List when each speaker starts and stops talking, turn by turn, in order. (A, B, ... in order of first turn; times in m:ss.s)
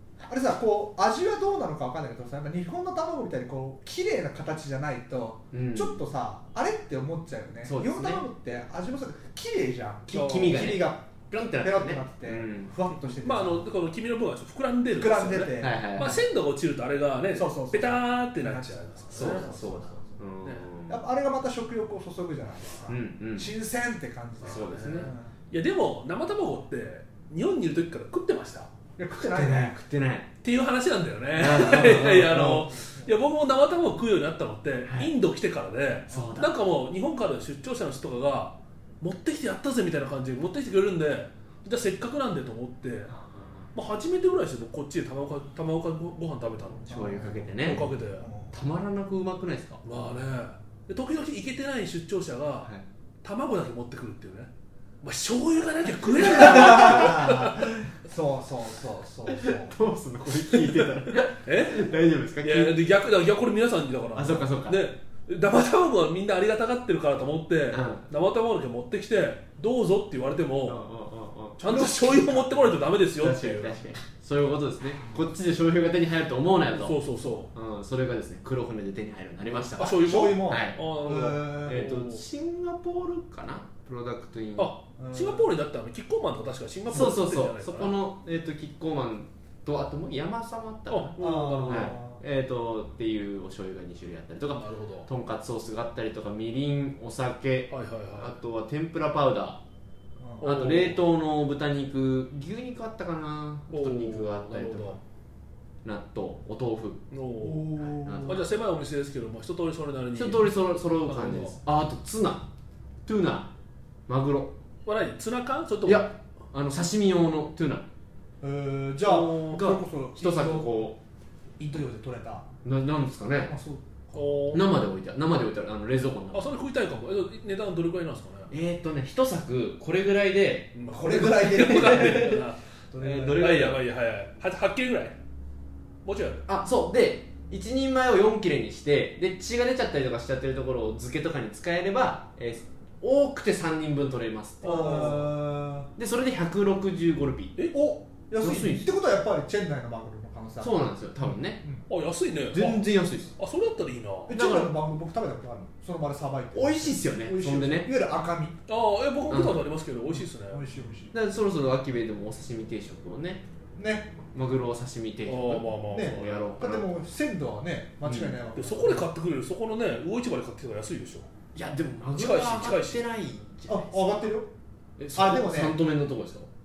0:00.2-0:13.7 A
0:05.5-0:06.0 B
0:07.6-0:08.3 B
0:10.1-0:12.7 B
0:10.1-0:10.8 C
0:13.2-0:19.6 C
0:14.9-0:16.2 A
0:15.6-0:16.2 B
0:17.3-0:20.1 A
0:19.1-0:21.0 B
0:20.9-0:25.3 A
0:22.9-0:23.5 B
0:24.4-0:28.7 C
0:24.4-0:25.1 B
0:29.0-0:29.8 A
0:29.2-0:30.3 B
0:30.4-0:43.1 C
0:31.4-0:32.7 B
0:34.9-0:35.1 B
0:36.1-0:36.5 B
0:43.1-0:43.7 B
0:43.7-0:47.0 C
0:46.9-0:47.9 B
0:46.9-0:48.6 A
0:47.6-0:48.3 C
0:48.5-0:49.8 B
0:49.8-0:52.7 C
0:53.2-0:54.5 C
0:55.0-0:57.6 C
0:56.2-0:59.8 A
0:56.5-0:57.3 B
0:59.3-1:02.8 B
1:00.5-1:10.8 C
1:04.2-1:04.9 B
1:07.7-1:08.0 B
1:10.7-1:12.4 B
1:11.6-1:13.8 C
1:11.7-1:12.4 A
1:13.2-1:17.0 B
1:16.7-1:17.5 C
1:17.5-1:20.8 B
1:19.8-1:22.2 C
1:19.9-1:21.8 A
1:21.7-1:24.7 B
1:24.6-1:28.0 C
1:25.0-1:25.5 A
1:26.9-1:31.2 B
1:30.9-1:32.0 C
1:31.2-1:32.2 A
1:31.7-1:39.6 B
1:34.6-1:35.1 C
1:37.7-1:38.4 C
1:40.4-1:41.0 C
1:40.4-1:45.0 B
1:43.7-1:45.0 C
1:45.8-1:47.0 B
1:47.1-1:51.6 C
1:47.4-1:48.4 A
1:48.0-1:48.4 B
1:50.2-1:52.5 B
1:53.0-1:53.5 B
1:54.1-1:54.6 B
1:54.9-1:56.1 C
1:55.8-1:57.9 B
1:58.4-2:00.7 A
1:59.0-1:59.7 C
1:59.5-2:01.0 B
2:01.6-2:02.5 A
2:02.6-2:03.5 B
2:03.5-2:04.5 A
2:04.1-2:04.7 C
2:04.5-2:06.6 B
2:06.3-2:08.5 C
2:08.5-2:12.4 B
2:10.7-2:12.6 C
2:10.9-2:13.5 A
2:13.0-2:13.8 B
2:13.3-2:15.2 C
2:16.0-2:16.4 C
2:16.5-2:25.2 B
2:24.6-2:25.2 C
2:24.6-2:25.9 A
2:26.0-2:27.6 B
2:27.7-2:31.8 A
2:28.4-2:28.9 B
2:30.6-2:31.6 B
2:31.9-2:34.3 C
2:32.5-2:33.4 B
2:34.3-2:38.6 A
2:34.3-2:34.7 B
2:36.6-2:37.9 B
2:38.7-2:40.6 C
2:39.3-2:39.7 B
2:40.1-2:41.1 A
2:41.1-2:43.4 B
2:43.8-2:44.1 A
2:44.3-2:46.8 B
2:45.3-2:46.8 C
2:45.9-2:49.1 A
2:48.0-2:48.4 B
2:48.6-2:51.3 C
2:51.5-2:54.3 B
2:52.1-2:53.1 C
2:53.7-2:54.5 A
2:55.0-2:56.5 B
2:55.1-2:55.8 A